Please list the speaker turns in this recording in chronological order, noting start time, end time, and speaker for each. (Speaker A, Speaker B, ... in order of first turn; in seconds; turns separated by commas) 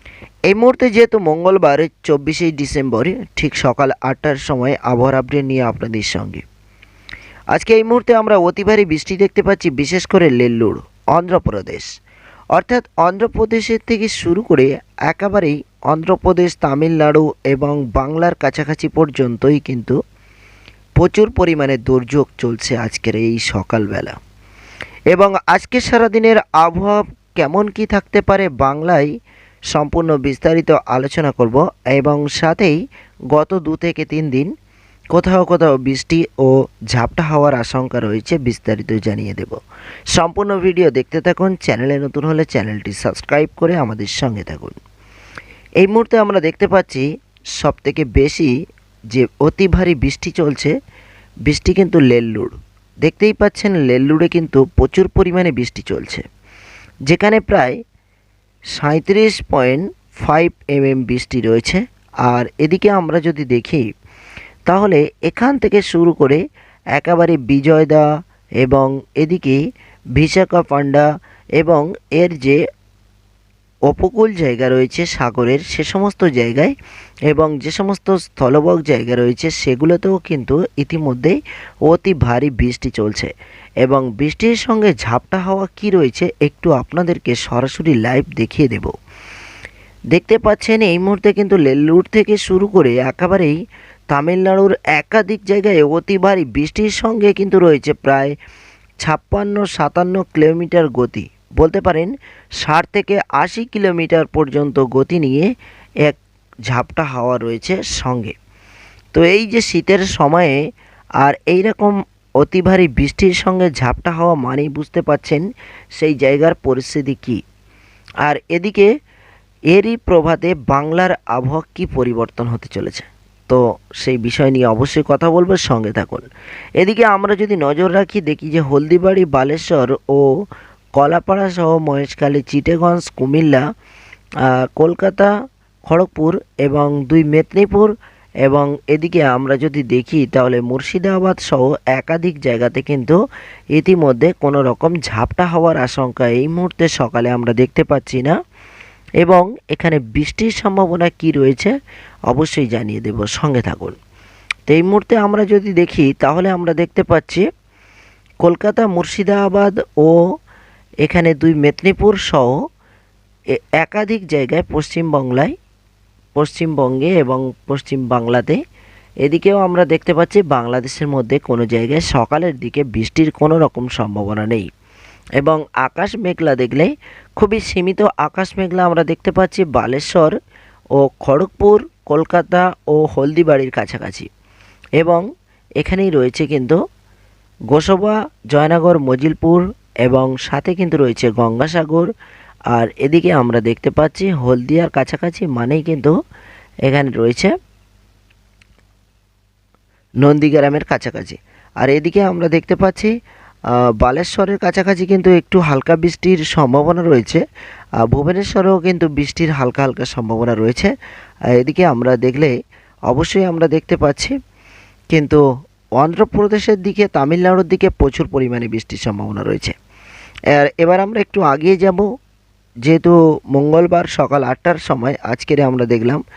Speaker A: 0.5-6.4, Speaker A: 7.5-11.9, Speaker A: 12.6-20.0, Speaker A: 21.0-24.2, Speaker A: 25.1-29.1, Speaker A: 29.7-32.8, Speaker A: 33.3-34.5, Speaker A: 35.1-39.6, Speaker A: 40.1-44.8, Speaker A: 45.8-47.0, Speaker A: 47.6-48.5, Speaker A: 49.1-50.7, Speaker A: 51.5-56.2, Speaker A: 57.1-57.8, Speaker A: 58.8-63.8, Speaker A: 64.7-66.4, Speaker A: 67.0-68.0, Speaker A: 68.6-69.6, Speaker A: 70.2-71.0, Speaker A: 71.6-72.6, Speaker A: 73.9-76.7, Speaker A: 77.3-81.4, Speaker A: 81.9-83.3, Speaker A: 83.8-88.9, Speaker A: 90.1-93.5, Speaker A: 94.1-98.3, Speaker A: 99.0-105.5, Speaker A: 106.7-108.3, Speaker A: 109.1-110.6, Speaker A: 111.2-115.4, Speaker A: 116.0-117.4, Speaker A: 118.2-118.9, Speaker A: 119.7-126.3, Speaker A: 126.8-130.2, Speaker A: 131.0-133.6, Speaker A: 134.8-135.3, Speaker A: 135.9-137.9, Speaker A: 138.4-143.2, Speaker A: 143.8-148.3, Speaker A: 149.2-151.7, Speaker A: 152.3-154.0, Speaker A: 154.7-157.4, Speaker A: 158.4-160.2, Speaker A: 161.0-162.5, Speaker A: 163.6-165.5, Speaker A: 166.4-168.6, Speaker A: 169.2-174.7, Speaker A: 175.4-180.3, Speaker A: 181.0-184.3, Speaker A: 185.8-186.8, Speaker A: 187.7-192.1, Speaker A: 192.7-196.1, Speaker A: 196.9-197.5, Speaker A: 200.2-203.1, Speaker A: 204.0-207.4, Speaker A: 208.1-210.9, Speaker A: 211.6-212.5, Speaker A: 213.1-214.3, Speaker A: 215.1-215.4, Speaker A: 216.0-219.8, Speaker A: 220.5-222.1, Speaker A: 222.8-226.2